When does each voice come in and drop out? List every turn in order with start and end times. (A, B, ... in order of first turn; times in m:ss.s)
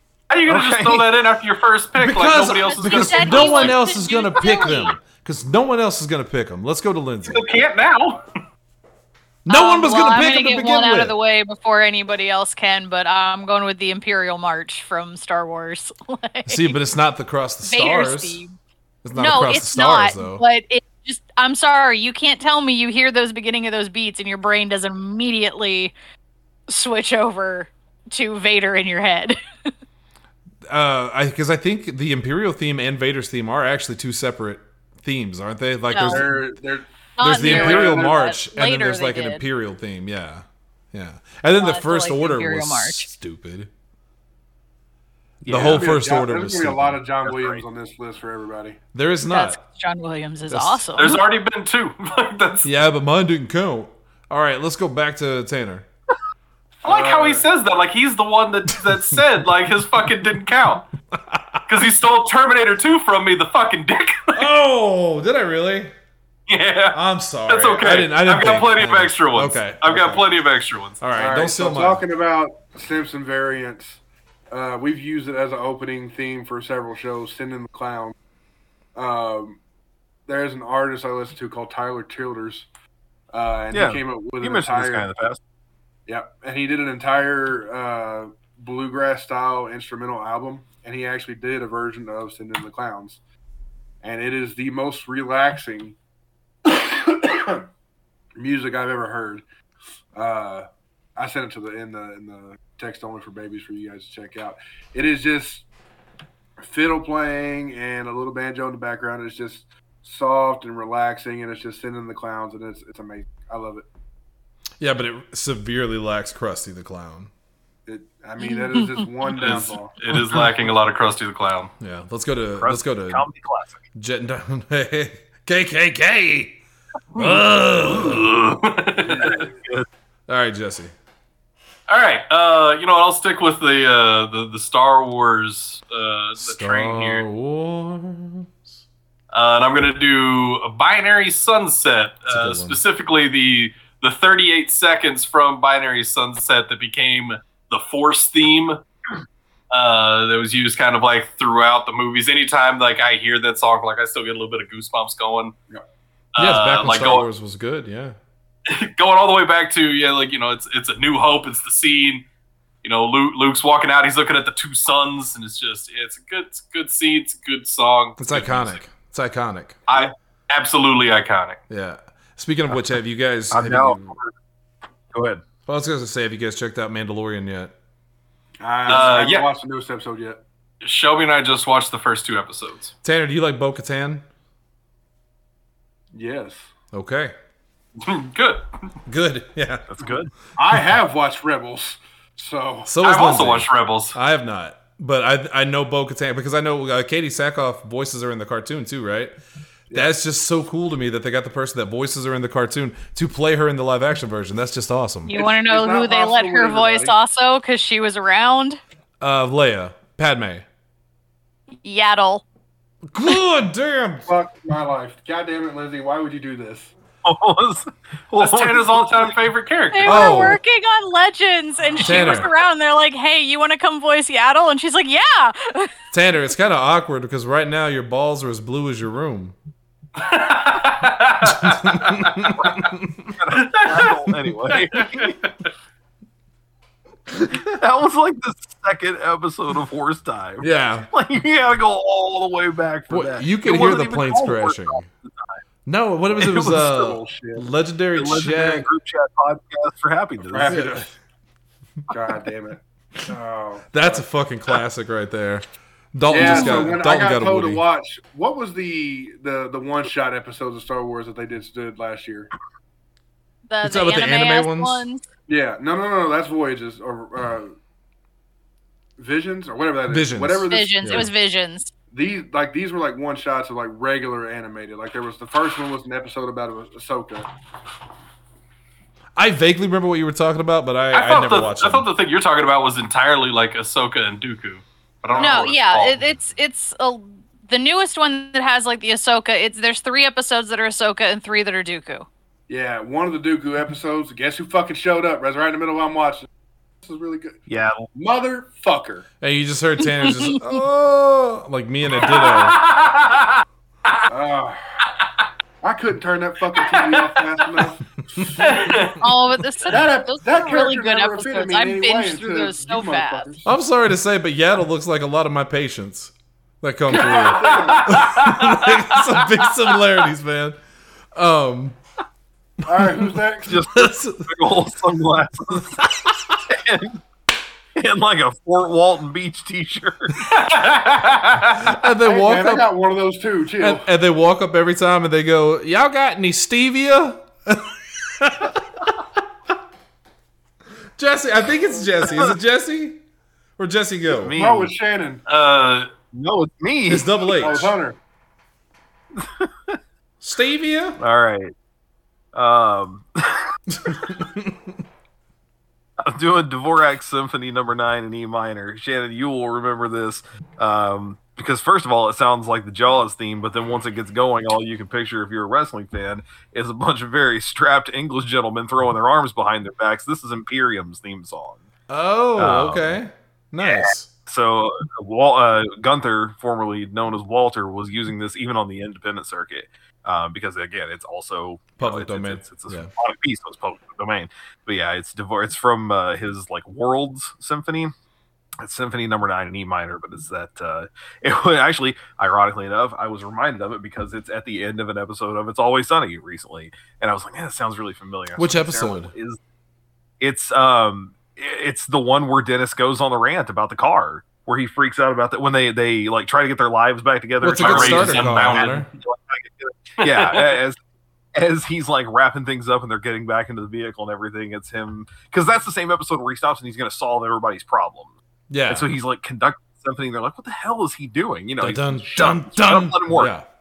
0:00.3-0:03.8 A
0:00.5-0:01.1 B
0:02.0-0:07.4 C
0:02.4-0:04.9 D
0:07.2-0:08.2 A
0:09.4-0:11.1 C
0:09.5-0:16.7 D
0:16.4-0:18.4 C
0:17.6-0:18.5 D
0:19.0-0:20.4 C
0:19.1-0:25.9 D
0:26.7-0:29.4 D
0:30.7-0:36.4 C
0:35.9-0:36.3 D
0:36.0-0:38.2 E
0:37.2-0:39.4 D
0:37.2-0:43.7 C
0:41.6-0:43.1 D
0:45.4-0:45.8 B
0:45.4-0:47.0 C
0:45.5-0:48.8 E
0:47.2-0:47.6 B
0:48.9-0:49.6 C
0:49.2-0:51.2 D
0:50.5-0:51.0 C
0:51.0-0:52.7 A
0:52.6-0:55.9 C
0:56.8-1:00.9 A
0:56.8-0:57.5 E
1:01.1-1:01.6 C
1:01.7-1:04.5 A
1:04.3-1:05.9 C
1:06.5-1:11.0 A
1:06.9-1:10.2 C
1:11.0-1:12.0 C
1:11.1-1:14.0 E
1:14.5-1:18.1 E
1:18.9-1:19.6 E
1:20.3-1:22.7 E
1:23.3-1:25.1 E
1:23.7-1:25.4 B
1:26.1-1:33.2 E
1:34.0-1:36.0 E
1:36.6-1:37.6 E
1:38.4-1:39.4 E
1:40.1-1:45.6 E
1:46.6-1:53.8 E
1:54.8-1:57.3 C
1:57.8-1:59.9 E
1:58.4-1:59.1 D
1:59.3-2:01.7 A
1:59.4-2:00.4 C
2:01.8-2:03.2 C
2:02.6-2:03.8 B
2:04.0-2:06.6 C
2:07.1-2:08.3 C
2:07.2-2:07.4 A
2:07.9-2:09.5 A
2:09.0-2:09.4 E
2:09.2-2:09.9 B
2:10.3-2:10.9 C
2:11.9-2:17.2 A
2:16.4-2:18.7 C
2:19.3-2:28.8 A
2:22.3-2:22.8 C
2:29.7-2:35.5 A
2:36.3-2:37.2 A
2:36.4-2:38.2 C
2:38.7-2:42.2 A
2:42.8-2:48.7 A
2:48.2-2:49.8 C
2:49.9-2:51.6 A
2:51.7-2:54.1 C
2:53.5-2:54.3 B
2:55.1-2:55.4 B
2:55.7-2:57.7 C
2:58.6-3:00.4 E
2:58.8-2:59.5 A
3:00.8-3:02.9 A
3:03.0-3:04.2 C
3:06.1-3:06.7 E
3:06.9-3:07.3 C
3:08.0-3:08.6 A
3:09.1-3:09.9 C
3:09.9-3:10.3 B
3:10.6-3:12.9 E
3:12.9-3:19.3 C
3:13.0-3:14.2 A
3:19.9-3:25.3 C
3:25.2-3:28.8 D
3:25.3-3:27.2 E
3:29.2-3:30.6 C
3:31.8-3:32.4 D
3:33.1-3:34.3 C
3:34.3-3:36.9 E
3:37.2-3:39.3 B
3:38.4-3:40.3 A
3:39.9-3:45.9 D
3:40.0-3:40.6 C
3:42.0-3:42.5 C
3:46.1-3:49.6 C
3:50.2-3:52.9 A
3:51.4-3:53.3 C
3:53.4-3:55.4 B
3:53.5-3:55.6 A
3:57.3-4:05.6 B
4:00.6-4:01.1 C
4:03.1-4:05.0 C
4:05.8-4:08.8 C
4:06.3-4:07.7 E
4:06.4-4:06.7 B
4:08.1-4:10.8 B
4:10.5-4:11.1 E
4:10.7-4:11.1 C
4:12.1-4:14.2 E
4:13.9-4:17.8 C
4:16.3-4:22.5 E
4:16.4-4:16.9 D
4:23.7-4:25.2 D
4:23.8-4:25.0 C
4:25.5-4:27.7 E
4:29.2-4:31.3 E
4:30.1-4:31.3 C
4:30.7-4:31.9 D
4:32.1-4:37.5 E
4:39.4-4:42.1 C
4:41.1-4:46.2 A
4:45.3-4:45.7 E
4:45.4-4:52.3 D
4:52.7-4:56.5 E
4:57.0-4:59.2 E
4:57.7-4:58.1 B
4:59.4-5:02.8 C
5:00.1-5:00.6 D
5:02.2-5:03.6 A
5:04.3-5:04.8 E
5:05.8-5:09.0 E
5:08.6-5:09.2 A
5:09.2-5:13.5 D
5:09.9-5:13.7 E
5:13.6-5:20.8 C
5:17.1-5:18.2 E
5:17.4-5:19.6 A
5:21.3-5:22.0 C
5:22.8-5:23.8 E
5:23.0-5:24.7 C
5:23.7-5:26.1 B
5:26.0-5:26.3 C
5:26.6-5:27.2 B
5:27.9-5:30.5 B
5:30.4-5:31.9 A
5:31.7-5:32.9 C
5:32.2-5:34.0 E
5:33.8-5:39.1 C
5:41.2-5:43.2 C
5:42.2-5:42.5 B
5:43.8-5:44.6 C
5:44.3-5:44.9 B
5:44.5-5:45.4 E
5:45.5-5:46.1 A
5:46.3-5:47.9 B
5:47.1-5:47.9 C
5:47.6-5:48.2 E
5:49.4-5:50.0 B
5:50.4-5:51.2 C
5:51.2-5:51.7 B
5:52.5-5:53.7 B
5:53.9-5:54.9 C
5:56.2-6:11.8 B
6:12.1-6:14.3 C
6:12.6-6:13.2 B
6:13.8-6:28.1 B
6:22.0-6:23.1 C
6:28.8-6:39.6 B
6:38.6-6:39.3 C
6:40.4-6:51.0 B
6:47.6-6:49.1 C
6:47.6-6:49.0 A
6:50.2-6:50.8 A
6:51.5-6:58.3 B
6:58.7-6:59.1 C
6:58.9-7:03.5 B
7:01.8-7:03.6 C